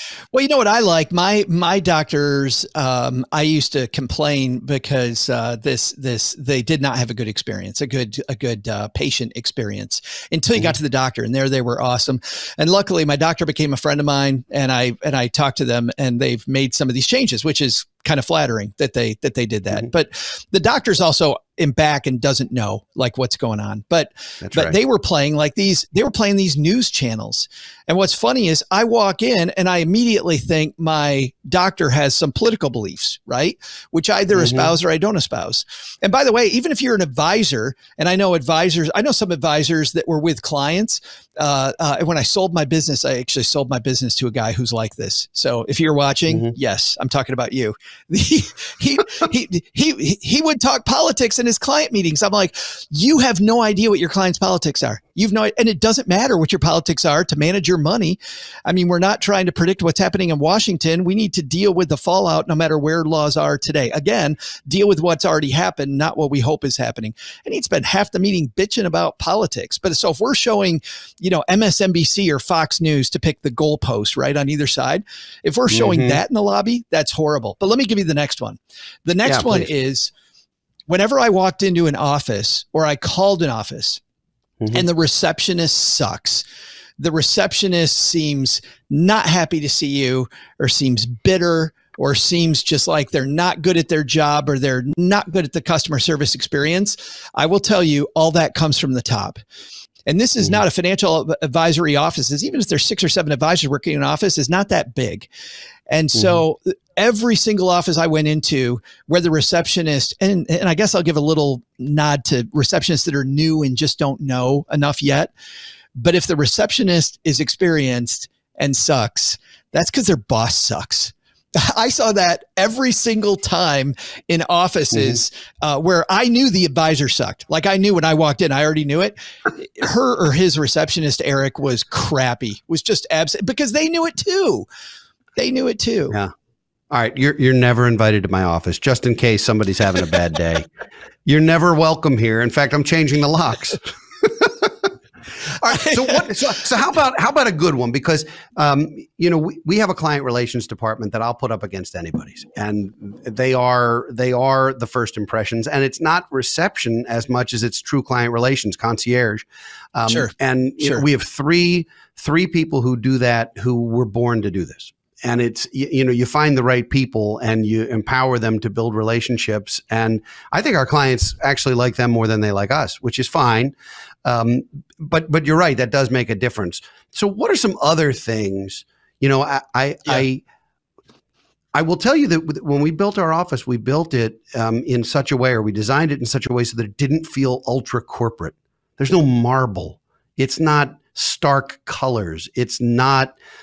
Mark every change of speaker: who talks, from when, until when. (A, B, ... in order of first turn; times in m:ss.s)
0:00.3-1:20.1 A
0:24.4-0:24.8 B
0:34.3-0:34.7 B
1:15.7-1:16.2 B
1:19.2-1:19.7 B
1:20.9-1:24.0 A
1:24.6-1:24.8 B
1:24.7-1:26.4 A
1:27.0-1:39.4 A
1:40.1-1:45.3 A
1:45.9-1:55.3 A
1:46.1-1:46.4 B
1:56.0-2:14.6 A
2:04.9-2:05.2 B
2:15.4-2:16.2 A
2:16.9-2:20.7 B
2:21.2-2:24.9 B
2:25.4-3:00.4 B
2:25.7-2:26.2 A
2:40.1-2:41.0 A
3:01.7-3:13.4 B